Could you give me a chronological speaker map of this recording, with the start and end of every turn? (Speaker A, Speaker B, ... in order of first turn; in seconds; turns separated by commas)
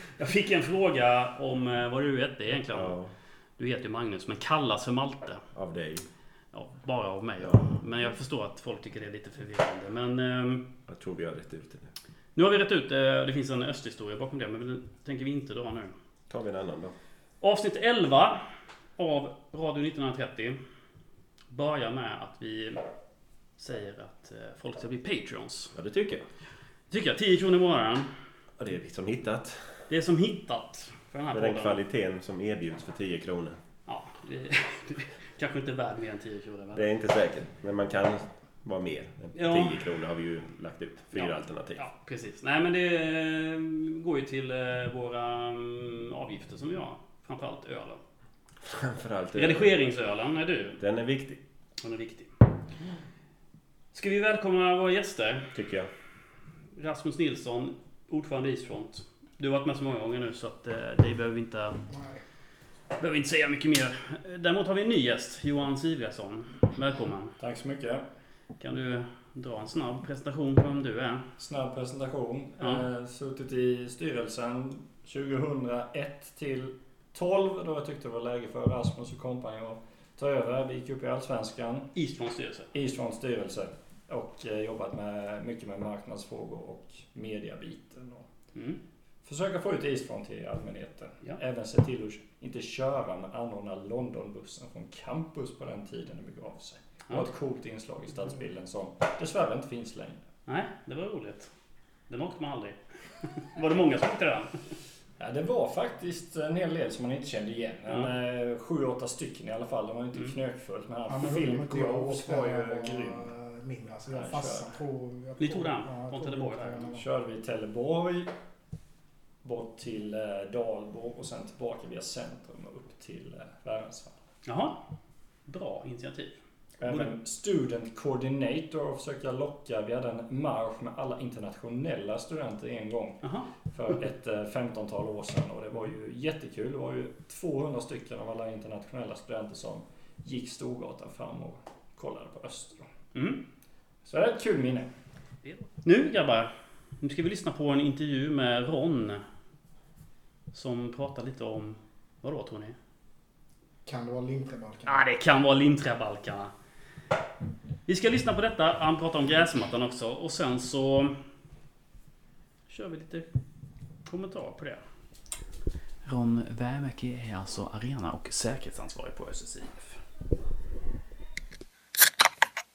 Speaker A: 0.2-3.0, Speaker B: 2.7-3.1, Speaker A: 3.6-5.4, Speaker B: 5.5-6.0, Speaker A: 6.5-10.7, Speaker B: 7.4-7.8, Speaker B: 10.9-11.9, Speaker A: 12.3-15.9, Speaker B: 16.3-16.9, Speaker A: 17.4-20.6, Speaker A: 21.5-22.9, Speaker A: 23.6-25.8, Speaker B: 25.8-26.2, Speaker A: 26.9-28.1, Speaker B: 28.6-29.9, Speaker A: 29.9-31.8, Speaker B: 31.3-33.6, Speaker A: 33.9-36.9, Speaker B: 36.8-41.8, Speaker A: 39.4-39.8, Speaker A: 41.1-48.0, Speaker B: 48.7-49.7, Speaker A: 49.3-50.8, Speaker B: 50.8-51.4, Speaker A: 51.8-52.3, Speaker A: 53.9-55.5, Speaker B: 55.5-55.9, Speaker A: 56.7-61.9, Speaker C: 61.9-62.2, Speaker A: 63.0-67.4, Speaker D: 67.4-68.0, Speaker A: 68.6-71.3, Speaker D: 71.4-81.9, Speaker A: 72.6-72.9, Speaker A: 81.9-82.7, Speaker D: 82.7-88.3, Speaker A: 88.5-88.8, Speaker D: 89.2-100.2, Speaker A: 100.5-101.5, Speaker A: 102.1-104.8, Speaker D: 105.2-113.3, Speaker C: 111.1-117.0, Speaker D: 114.1-114.8, Speaker A: 115.4-116.9, Speaker D: 117.0-118.3, Speaker D: 119.4-124.2, Speaker A: 124.5-124.9, Speaker A: 125.5-127.1, Speaker D: 126.8-142.9, Speaker A: 133.2-133.5, Speaker A: 143.1-143.4, Speaker D: 144.1-144.9, Speaker A: 145.4-149.2, Speaker A: 150.5-152.8, Speaker C: 153.9-155.0, Speaker A: 154.9-156.5, Speaker A: 157.9-161.2, Speaker A: 162.7-163.3, Speaker A: 164.1-164.8, Speaker A: 166.0-170.0